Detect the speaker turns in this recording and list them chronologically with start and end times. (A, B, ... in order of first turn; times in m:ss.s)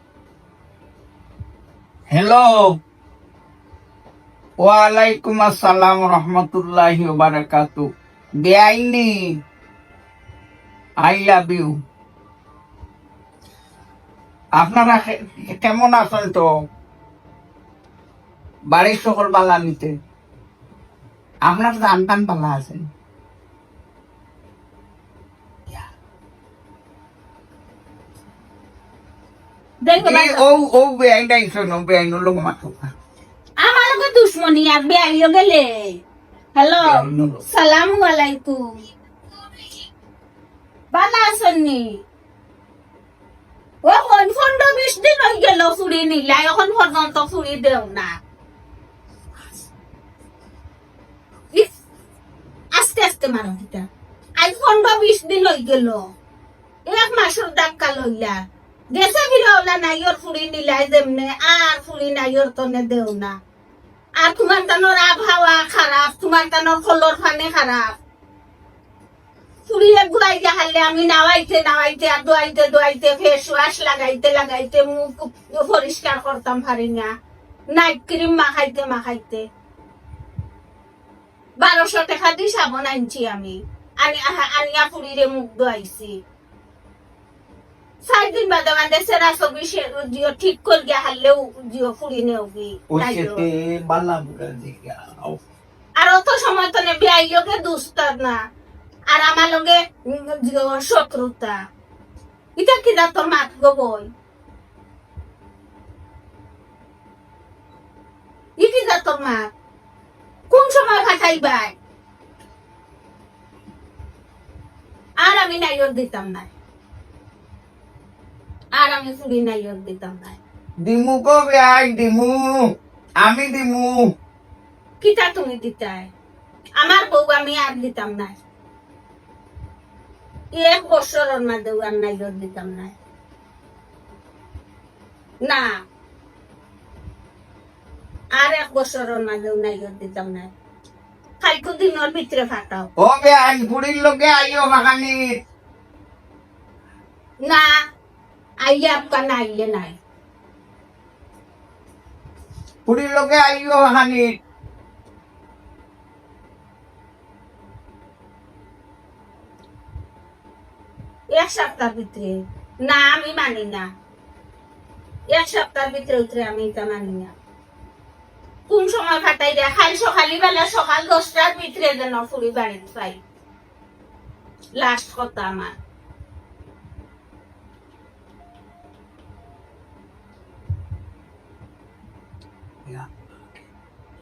0:02.1-0:02.8 A
0:04.6-0:07.9 A
0:08.4-0:09.3 A
0:11.0-0:11.7 A
0:14.6-0:16.5 A
0:18.7-0:20.0 A
0:21.5-0:22.9 A
0:29.8-0:30.4 B
0:30.0-0:32.8 A
0:33.6-0:36.0 B
0:36.6-0:38.6 B
0:36.8-0:37.4 A
0:40.9-0:41.9 B
0:43.8-0:48.1 B
0:52.8-0:53.9 B
0:54.4-0:56.0 B
0:56.9-0:58.4 B
0:58.9-1:03.3 B
1:04.2-1:08.0 B
1:09.7-1:17.1 B
1:17.7-1:19.4 B
1:21.6-1:26.2 B
1:28.0-1:33.5 B
1:32.9-1:35.4 A
1:36.0-1:38.4 B
1:39.1-1:41.6 B
1:42.6-1:44.1 B
1:48.6-1:49.5 B
1:50.5-1:51.7 B
1:55.2-1:56.5 B
1:58.7-2:00.4 B
2:00.8-2:02.6 A
2:03.2-2:04.0 A
2:05.0-2:06.1 B
2:06.8-2:08.3 B
2:10.6-2:13.0 B
2:18.4-2:20.5 B
2:21.4-2:22.9 B
2:23.0-2:25.2 A
2:28.6-2:30.0 B
2:32.9-2:34.4 A
2:41.3-2:43.9 B
2:45.3-2:47.3 B
2:48.7-2:53.2 B
2:54.8-2:55.7 B
3:02.8-3:03.7 A